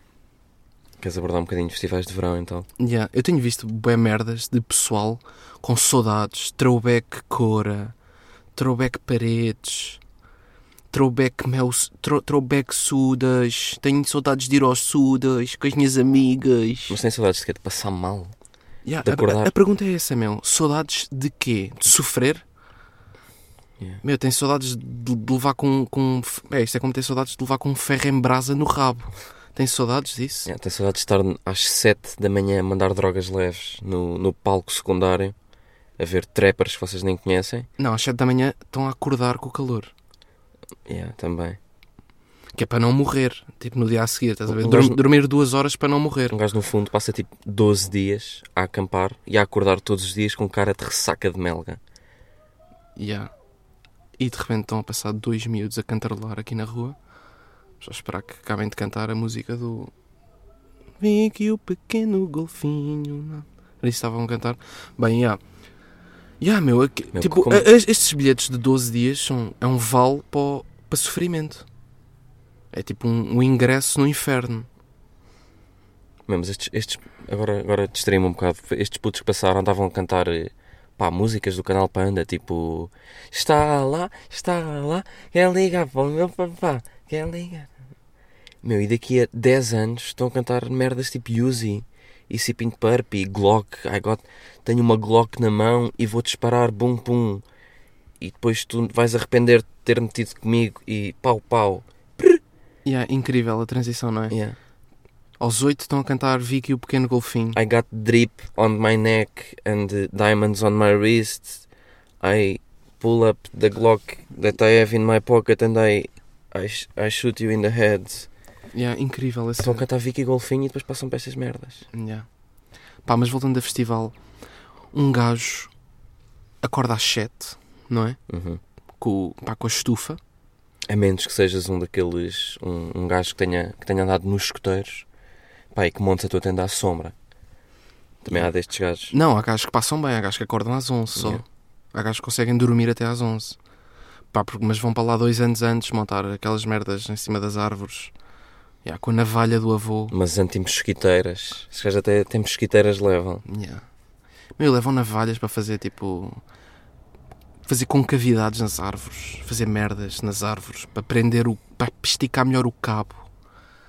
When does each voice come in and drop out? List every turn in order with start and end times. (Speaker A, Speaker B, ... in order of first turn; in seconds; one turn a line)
Speaker A: 1.0-2.7
Speaker B: 2.8-8.0
Speaker B: 8.5-10.0
Speaker B: 10.9-17.0
Speaker A: 16.9-18.3
Speaker B: 18.8-22.4
Speaker A: 19.0-19.5
Speaker B: 24.0-30.5
Speaker A: 30.5-35.4
Speaker A: 36.0-37.7
Speaker B: 37.8-39.9
Speaker A: 40.9-41.6
Speaker B: 42.5-46.4
Speaker A: 44.5-45.0
Speaker A: 46.3-51.8
Speaker B: 53.0-53.3
Speaker B: 54.2-57.0
Speaker B: 57.8-59.9
Speaker B: 61.0-65.4
Speaker B: 66.4-71.7
Speaker A: 67.1-67.7
Speaker B: 72.7-74.7
Speaker A: 76.3-87.7
Speaker A: 88.6-97.5
Speaker A: 98.2-102.4
Speaker B: 102.8-104.4
Speaker A: 104.3-104.6
Speaker B: 105.4-107.6
Speaker A: 107.5-111.6
Speaker A: 112.2-118.3
Speaker B: 118.7-119.8
Speaker A: 119.6-121.8
Speaker B: 121.9-122.3
Speaker B: 123.0-124.2
Speaker B: 124.9-125.7
Speaker B: 126.6-128.2
Speaker A: 128.3-128.6
Speaker B: 129.0-130.2
Speaker A: 130.9-135.1
Speaker A: 135.7-137.2
Speaker A: 138.2-139.2
Speaker B: 139.1-143.6
Speaker A: 141.2-141.4
Speaker B: 144.3-148.1
Speaker B: 148.8-150.2
Speaker A: 150.1-153.4
Speaker B: 153.4-153.8
Speaker B: 154.6-156.4
Speaker B: 157.7-163.3